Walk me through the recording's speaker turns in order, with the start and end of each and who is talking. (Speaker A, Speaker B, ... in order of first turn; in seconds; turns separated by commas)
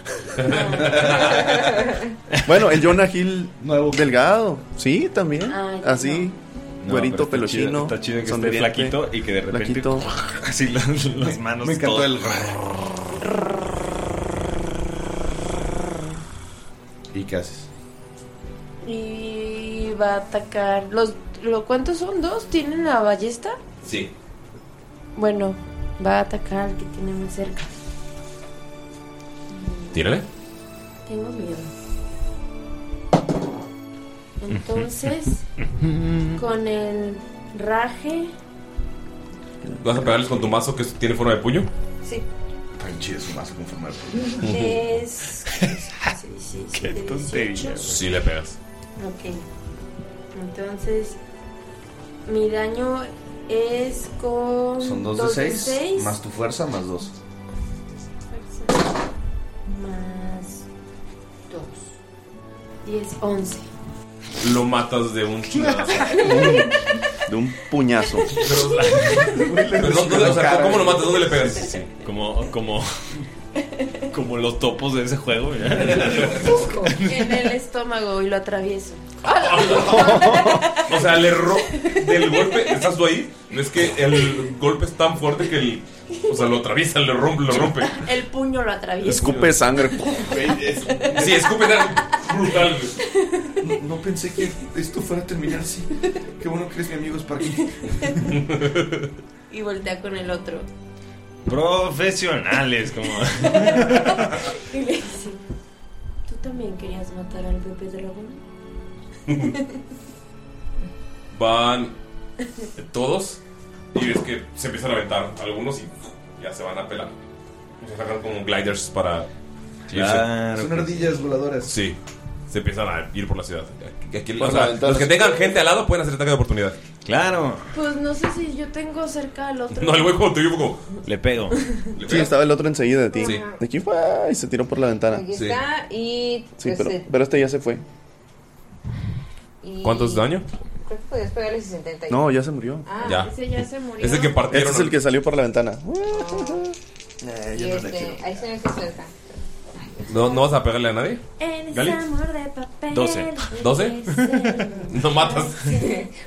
Speaker A: 0.5-1.4, Speaker B: 0.8-1.8, Speaker C: 1.1-1.6, Speaker D: 2.3-2.6, Speaker C: 2.5-10.1, Speaker B: 3.6-4.2, Speaker A: 5.5-6.3, Speaker D: 6.8-12.7, Speaker B: 11.2-12.8, Speaker B: 17.1-17.7, Speaker A: 18.8-23.6, Speaker E: 23.8-24.1, Speaker A: 25.1-27.7, Speaker A: 29.5-30.1, Speaker E: 29.9-30.3, Speaker A: 31.1-31.7, Speaker A: 34.4-35.4, Speaker D: 34.5-36.4, Speaker A: 36.4-38.3, Speaker E: 39.8-41.7, Speaker B: 42.8-44.7, Speaker A: 44.5-48.0, Speaker D: 45.4-46.1, Speaker D: 46.7-48.1, Speaker E: 47.8-48.6, Speaker A: 49.0-49.5, Speaker A: 50.3-51.2, Speaker A: 52.3-56.2, Speaker B: 54.8-57.1, Speaker A: 58.3-58.9, Speaker A: 59.7-60.7, Speaker A: 61.5-62.0, Speaker A: 62.8-63.7, Speaker E: 64.4-66.3, Speaker D: 65.7-66.2, Speaker C: 66.1-66.7, Speaker C: 67.3-68.4, Speaker E: 68.3-71.9, Speaker B: 69.2-71.6, Speaker D: 72.0-73.2, Speaker D: 74.1-77.5, Speaker E: 75.9-76.5, Speaker A: 76.9-82.7, Speaker E: 79.2-88.1, Speaker D: 80.1-80.5, Speaker A: 87.5-93.7, Speaker C: 89.0-90.3, Speaker B: 90.1-91.5, Speaker E: 91.2-93.0, Speaker B: 93.6-98.4, Speaker A: 97.8-98.3, Speaker E: 98.5-98.9, Speaker A: 99.5-100.7, Speaker D: 101.5-104.5, Speaker A: 103.4-105.4, Speaker A: 106.3-108.4, Speaker A: 109.4-109.8, Speaker E: 111.3-111.9, Speaker E: 112.8-113.4, Speaker E: 113.9-117.1, Speaker E: 117.8-119.3, Speaker E: 119.9-120.3, Speaker D: 119.9-121.2, Speaker B: 120.5-121.8, Speaker E: 121.7-122.0, Speaker E: 122.5-126.8, Speaker C: 124.4-125.4, Speaker D: 127.0-127.7, Speaker A: 127.7-130.3, Speaker E: 129.7-130.9, Speaker D: 131.1-131.6, Speaker E: 132.0-132.3, Speaker C: 132.0-135.3, Speaker F: 133.1-133.6, Speaker F: 135.1-137.1, Speaker B: 135.3-135.6, Speaker C: 136.6-137.8, Speaker F: 139.6-142.3, Speaker E: 139.8-140.5, Speaker C: 142.1-142.9, Speaker F: 142.8-143.3, Speaker E: 143.0-143.3, Speaker A: 143.1-144.5, Speaker E: 144.0-145.0, Speaker C: 144.5-146.8, Speaker F: 146.1-146.6, Speaker B: 147.2-148.5, Speaker F: 147.5-149.2, Speaker E: 150.1-152.0, Speaker A: 151.4-156.1, Speaker D: 152.9-153.5, Speaker E: 153.6-154.1, Speaker D: 154.1-154.7, Speaker E: 154.9-155.7, Speaker F: 155.8-156.1